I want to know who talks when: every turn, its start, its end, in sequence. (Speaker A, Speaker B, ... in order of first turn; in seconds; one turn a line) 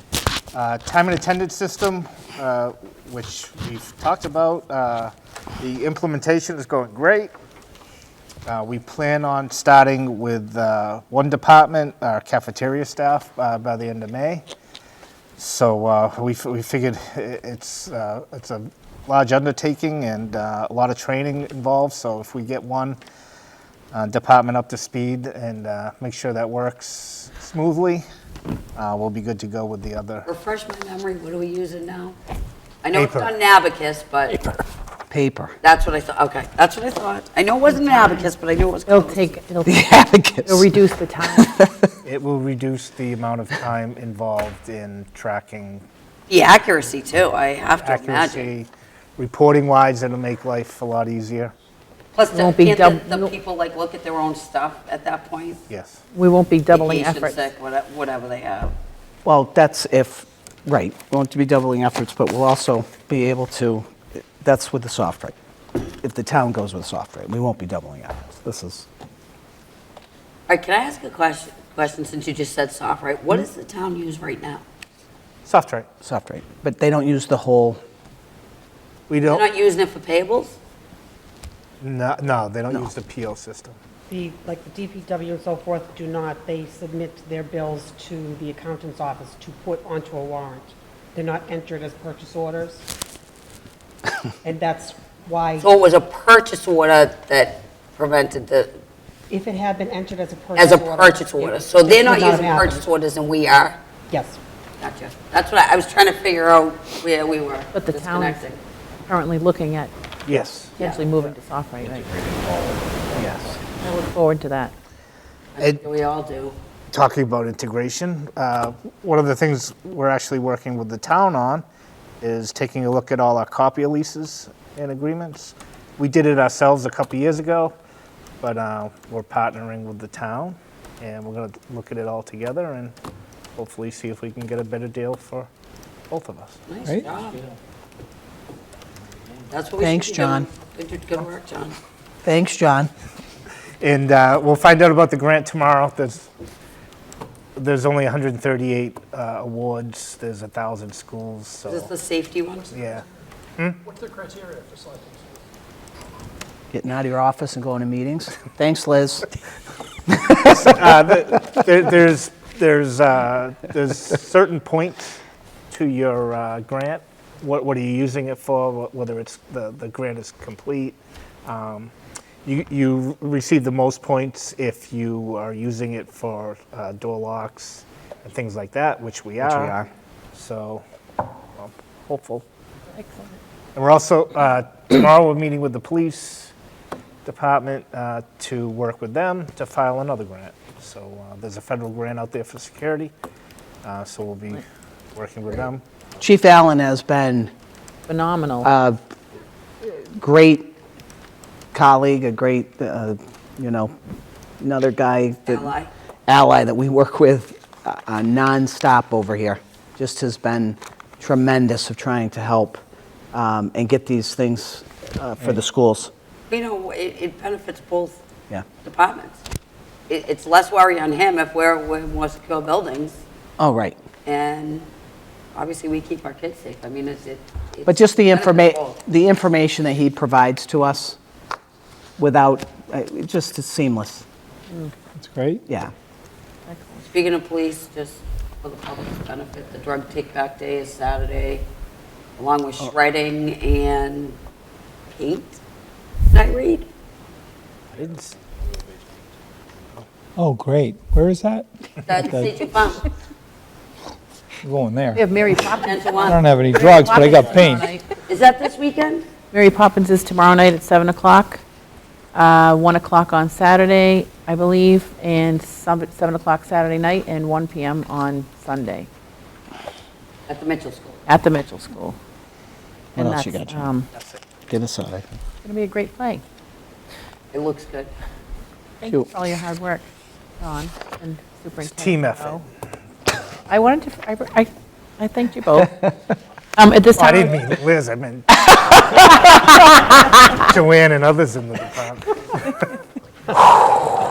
Speaker A: 0.5-7.3
Speaker A: 8.4-14.4
Speaker A: 15.4-23.0
Speaker A: 23.9-28.0
Speaker A: 28.8-30.3
Speaker B: 30.2-32.1
Speaker B: 32.8-34.5
Speaker A: 32.9-33.3
Speaker C: 35.1-35.5
Speaker B: 35.6-39.4
Speaker D: 38.9-39.9
Speaker C: 39.6-41.9
Speaker D: 40.4-41.5
Speaker A: 42.0-45.8
Speaker B: 46.3-48.5
Speaker A: 47.8-51.5
Speaker B: 52.1-55.6
Speaker D: 52.3-53.3
Speaker A: 55.7-56.0
Speaker D: 56.1-57.5
Speaker B: 56.7-58.7
Speaker C: 59.2-65.3
Speaker C: 66.0-68.8
Speaker B: 70.5-74.6
Speaker A: 75.4-75.9
Speaker C: 76.0-77.8
Speaker A: 79.1-79.4
Speaker B: 79.2-80.6
Speaker A: 81.8-83.8
Speaker E: 84.1-92.8
Speaker E: 94.4-95.7
Speaker B: 95.6-98.7
Speaker E: 99.3-102.9
Speaker B: 100.5-103.8
Speaker E: 104.1-104.4
Speaker B: 104.8-108.6
Speaker D: 107.7-108.5
Speaker D: 109.1-109.9
Speaker A: 110.3-110.7
Speaker D: 110.8-112.3
Speaker B: 110.8-111.0
Speaker F: 111.8-113.3
Speaker C: 113.1-113.5
Speaker D: 113.8-114.7
Speaker B: 115.5-116.5
Speaker A: 116.9-121.6
Speaker A: 122.2-127.7
Speaker A: 128.4-132.9
Speaker A: 133.6-135.5
Speaker A: 136.1-136.6
Speaker B: 136.7-137.5
Speaker B: 139.5-141.8
Speaker C: 139.8-140.5
Speaker C: 142.2-142.9
Speaker A: 143.8-146.3
Speaker A: 147.6-151.9
Speaker B: 151.7-152.8
Speaker A: 152.7-153.0
Speaker F: 154.0-155.2
Speaker C: 156.7-159.3
Speaker A: 160.4-165.2
Speaker A: 165.7-171.9
Speaker A: 172.4-179.7
Speaker C: 179.4-179.9
Speaker A: 180.3-180.8
Speaker A: 181.6-182.4
Speaker D: 182.9-183.3
Speaker A: 183.7-186.5
Speaker A: 187.2-193.1
Speaker A: 193.8-194.6
Speaker A: 195.1-195.8
Speaker C: 196.2-197.5
Speaker D: 198.1-198.7
Speaker C: 198.6-199.0
Speaker C: 199.8-200.7
Speaker C: 201.7-203.9
Speaker C: 204.6-205.7
Speaker B: 205.4-205.9
Speaker C: 206.3-212.8
Speaker C: 213.3-216.1
Speaker B: 216.5-218.2
Speaker B: 218.8-219.4
Speaker B: 220.1-223.2
Speaker C: 223.6-224.0
Speaker B: 224.2-224.9
Speaker B: 225.5-229.0
Speaker C: 227.8-231.2
Speaker C: 232.2-234.2
Speaker C: 235.7-235.9
Speaker D: 236.7-237.1
Speaker B: 237.1-241.6
Speaker B: 242.4-244.4
Speaker B: 245.1-245.6
Speaker B: 246.3-246.8
Speaker A: 248.0-248.3
Speaker G: 250.3-252.5
Speaker B: 252.1-253.1
Speaker G: 254.6-255.2
Speaker D: 255.1-258.1
Speaker B: 255.8-257.7
Speaker G: 256.1-257.9
Speaker B: 258.3-259.2
Speaker D: 259.5-261.6
Speaker D: 262.3-269.1
Speaker B: 270.5-271.2
Speaker D: 271.3-272.2
Speaker C: 273.2-273.9
Speaker D: 273.2-274.1
Speaker C: 274.7-275.4
Speaker D: 275.6-276.4
Speaker B: 277.5-278.1
Speaker D: 279.0-280.0
Speaker D: 280.6-282.6
Speaker A: 281.8-282.6
Speaker D: 283.7-286.1
Speaker D: 286.8-287.7
Speaker A: 287.1-289.3
Speaker A: 290.5-292.9